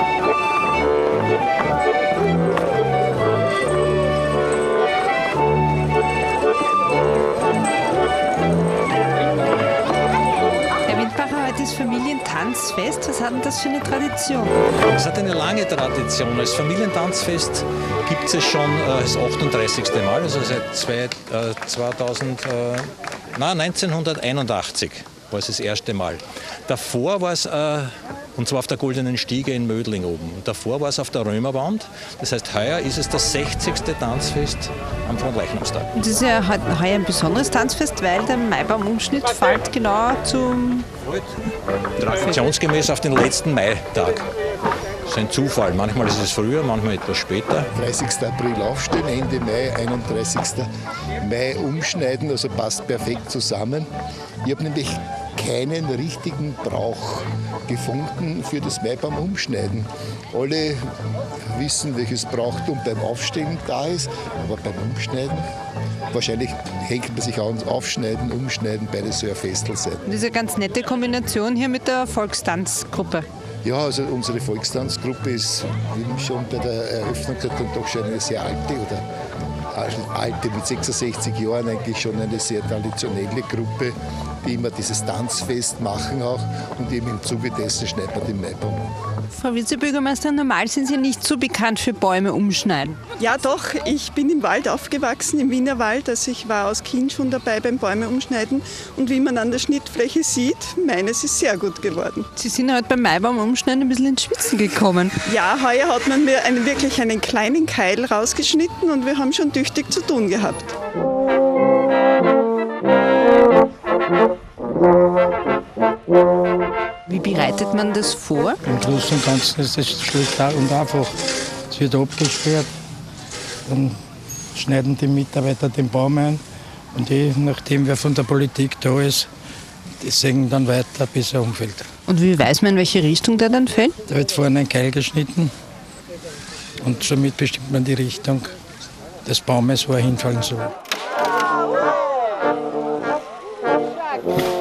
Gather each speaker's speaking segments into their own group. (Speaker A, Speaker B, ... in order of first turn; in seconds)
Speaker A: 10.9-14.5, 36.0-40.9, 70.1-73.2, 89.3-93.0, 102.3-105.2, 117.1-118.6, 132.1-133.9
Speaker B: 14.9-35.9, 42.0-44.2, 45.0-47.7
Speaker C: 47.7-50.7, 51.2-53.9, 54.4-60.8, 61.5-65.4, 66.1-70.0, 73.6-79.0, 79.7-88.9
Speaker D: 93.2-102.2, 105.3-110.7
Speaker E: 118.7-121.2, 121.7-122.7, 123.7-124.0, 124.5-126.4, 126.9-129.3, 130.0-131.9, 134.1-135.5, 136.8-138.5, 139.2-140.7